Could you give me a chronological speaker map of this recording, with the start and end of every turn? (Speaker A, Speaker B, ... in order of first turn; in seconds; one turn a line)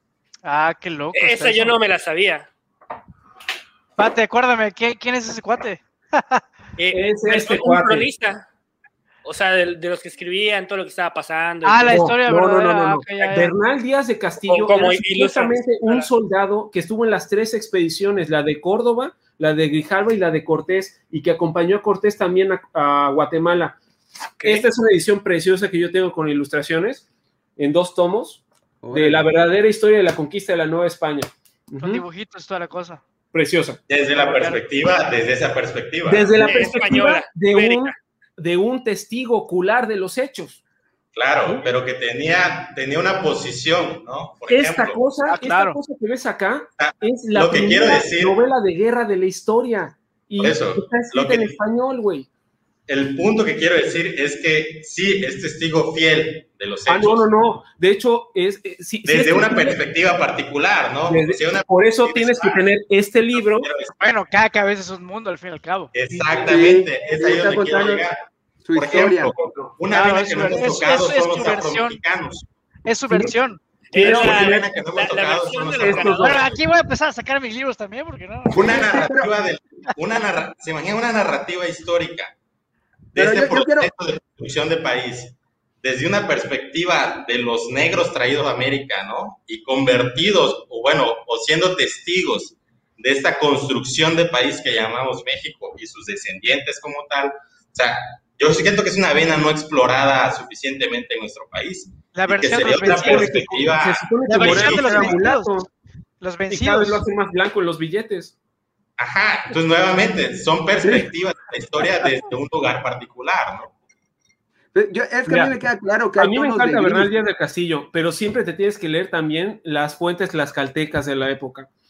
Speaker A: 0.4-1.7
Speaker B: 1.1-2.5
Speaker A: 4.0-6.4
Speaker B: 6.8-8.5
Speaker C: 6.9-8.1
Speaker B: 9.2-12.1
Speaker A: 11.6-13.5
Speaker C: 11.8-23.8
Speaker B: 14.4-16.1
Speaker B: 24.4-24.7
Speaker C: 24.4-27.0
Speaker C: 27.6-32.0
Speaker D: 28.8-29.3
Speaker A: 31.8-33.0
Speaker C: 33.3-33.8
Speaker E: 33.9-36.4
Speaker A: 34.1-34.6
Speaker C: 36.1-40.6
Speaker B: 36.4-37.9
Speaker E: 41.1-45.0
Speaker C: 44.5-52.3
Speaker A: 45.3-45.8
Speaker E: 46.8-48.4
Speaker E: 50.4-51.5
Speaker E: 52.9-57.2
Speaker C: 56.9-59.8
Speaker E: 59.0-62.6
Speaker C: 61.1-63.7
Speaker E: 63.3-64.0
Speaker A: 64.0-65.9
Speaker E: 65.9-72.5
Speaker C: 66.1-66.4
Speaker D: 66.5-68.0
Speaker D: 68.6-69.3
Speaker A: 69.9-72.0
Speaker A: 72.8-73.6
Speaker C: 73.1-73.3
Speaker B: 73.9-76.5
Speaker C: 74.0-74.6
Speaker E: 74.0-76.2
Speaker C: 75.8-76.4
Speaker A: 76.2-78.9
Speaker D: 78.5-79.3
Speaker E: 78.5-82.3
Speaker E: 83.1-105.2
Speaker D: 83.1-83.9
Speaker A: 102.1-103.7
Speaker C: 102.8-105.7
Speaker A: 104.2-105.5
Speaker A: 106.2-107.0
Speaker C: 106.5-108.3
Speaker E: 109.0-113.7
Speaker D: 110.8-111.1
Speaker D: 114.7-117.1
Speaker C: 115.2-115.5
Speaker C: 116.2-121.7